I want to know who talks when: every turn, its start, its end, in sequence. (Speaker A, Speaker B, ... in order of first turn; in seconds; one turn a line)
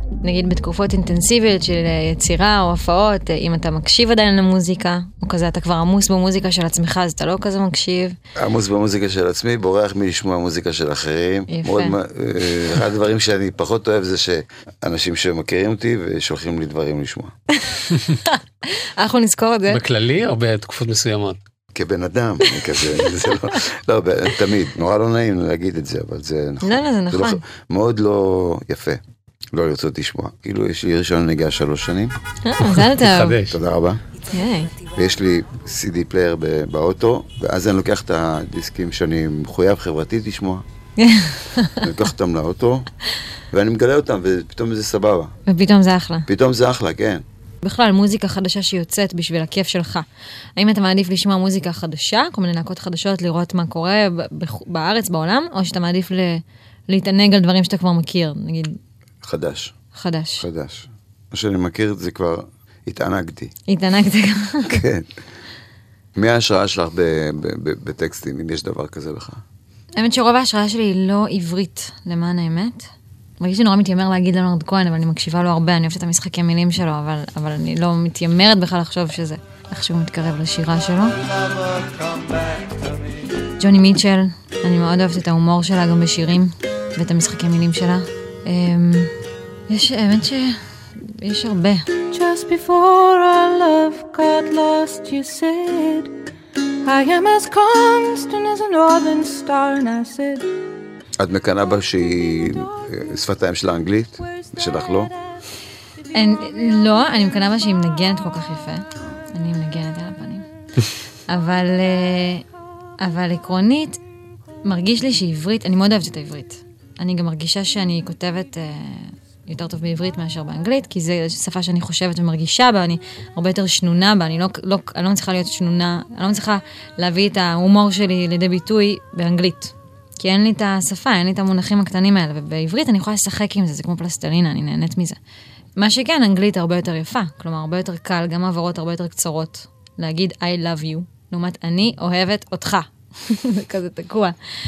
Speaker A: 0.2-8.2
Speaker B: 8.4-17.3
Speaker A: 11.5-12.0
Speaker A: 17.6-19.8
Speaker C: 19.7-21.4
Speaker B: 21.7-29.0
Speaker A: 26.6-27.4
Speaker B: 29.5-32.1
Speaker A: 32.4-33.4
Speaker C: 32.6-33.6
Speaker B: 33.5-34.0
Speaker A: 34.3-34.7
Speaker B: 34.9-40.6
Speaker A: 41.0-41.9
Speaker B: 41.8-42.9
Speaker B: 43.5-45.3
Speaker A: 45.5-46.3
Speaker B: 46.3-47.2
Speaker A: 47.6-50.1
Speaker A: 50.6-58.8
Speaker B: 59.2-59.7
Speaker A: 59.9-60.5
Speaker B: 60.4-63.5
Speaker A: 63.7-64.8
Speaker B: 64.7-65.1
Speaker B: 66.2-69.4
Speaker A: 70.0-72.9
Speaker A: 73.4-81.3
Speaker A: 83.6-89.1
Speaker A: 89.7-91.9
Speaker D: 92.1-96.1
Speaker D: 96.8-100.5
Speaker B: 101.2-105.2
Speaker A: 106.1-110.5
Speaker A: 111.3-112.4
Speaker A: 113.0-114.0
Speaker A: 114.7-135.2
Speaker A: 135.8-144.4